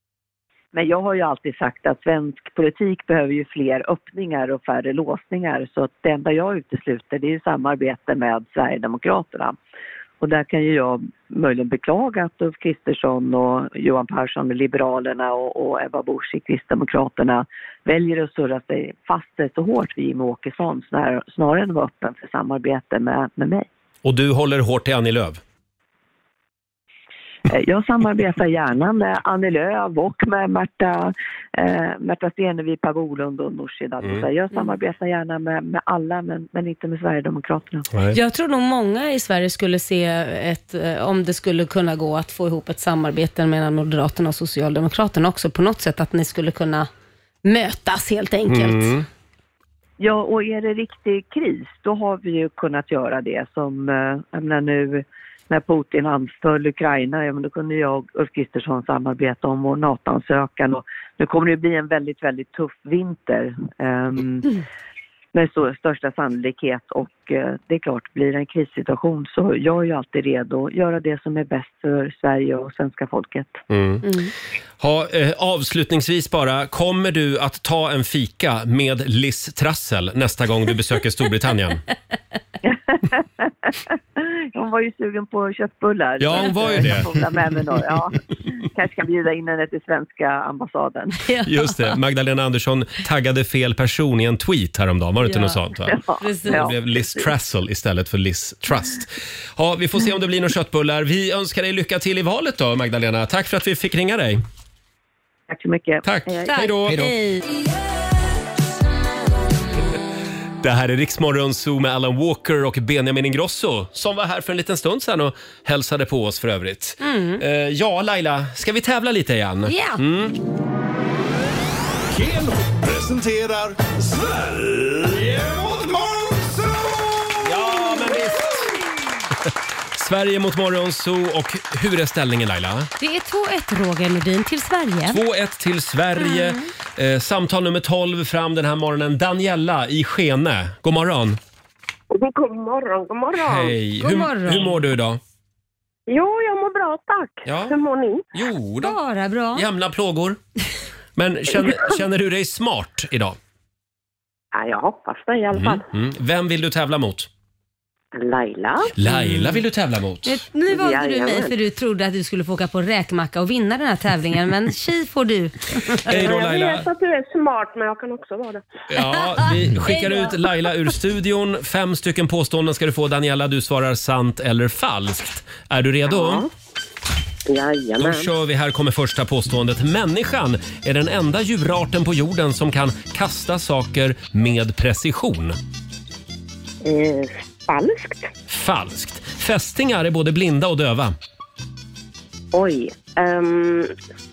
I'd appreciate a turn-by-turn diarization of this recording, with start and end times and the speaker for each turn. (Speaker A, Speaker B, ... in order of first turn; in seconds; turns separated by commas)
Speaker A: 0.7-9.6, Speaker A: 10.2-23.7, Speaker B: 24.0-25.4, Speaker A: 27.5-37.9, Speaker B: 37.9-38.2, Speaker C: 38.1-46.9, Speaker C: 47.4-48.9, Speaker B: 48.5-49.0, Speaker A: 50.0-64.6, Speaker A: 65.3-73.6, Speaker B: 73.7-74.1, Speaker C: 74.0-74.3, Speaker B: 74.8-81.8, Speaker A: 82.6-91.2, Speaker B: 86.2-87.3, Speaker C: 91.1-92.0, Speaker B: 91.4-104.4, Speaker C: 95.2-95.6, Speaker A: 95.8-97.3, Speaker C: 96.2-96.7, Speaker A: 105.5-106.5, Speaker B: 106.0-107.0, Speaker C: 106.5-107.4, Speaker B: 110.6-120.3, Speaker C: 117.0-117.4, Speaker C: 119.7-120.0, Speaker D: 122.1-127.7, Speaker B: 127.4-128.7, Speaker B: 129.9-132.9, Speaker C: 133.0-135.2, Speaker B: 135.1-141.4, Speaker C: 136.2-136.6, Speaker E: 142.1-143.8, Speaker B: 143.4-145.2, Speaker C: 144.0-144.7, Speaker E: 146.1-148.2, Speaker B: 147.4-147.8, Speaker B: 148.3-149.0, Speaker C: 148.8-149.7, Speaker B: 149.5-150.4, Speaker B: 151.2-153.4, Speaker E: 151.5-152.0, Speaker E: 154.5-155.8, Speaker B: 155.5-157.3, Speaker E: 158.1-158.9, Speaker B: 159.0-160.4, Speaker C: 159.1-159.6, Speaker C: 160.2-166.2, Speaker E: 160.7-161.6, Speaker B: 166.1-166.9, Speaker E: 166.1-168.7, Speaker B: 168.9-176.4, Speaker C: 169.8-170.3, Speaker E: 176.1-176.5, Speaker E: 177.4-178.3, Speaker B: 178.0-185.6, Speaker E: 186.8-188.3, Speaker B: 188.5-191.1, Speaker E: 192.5-193.9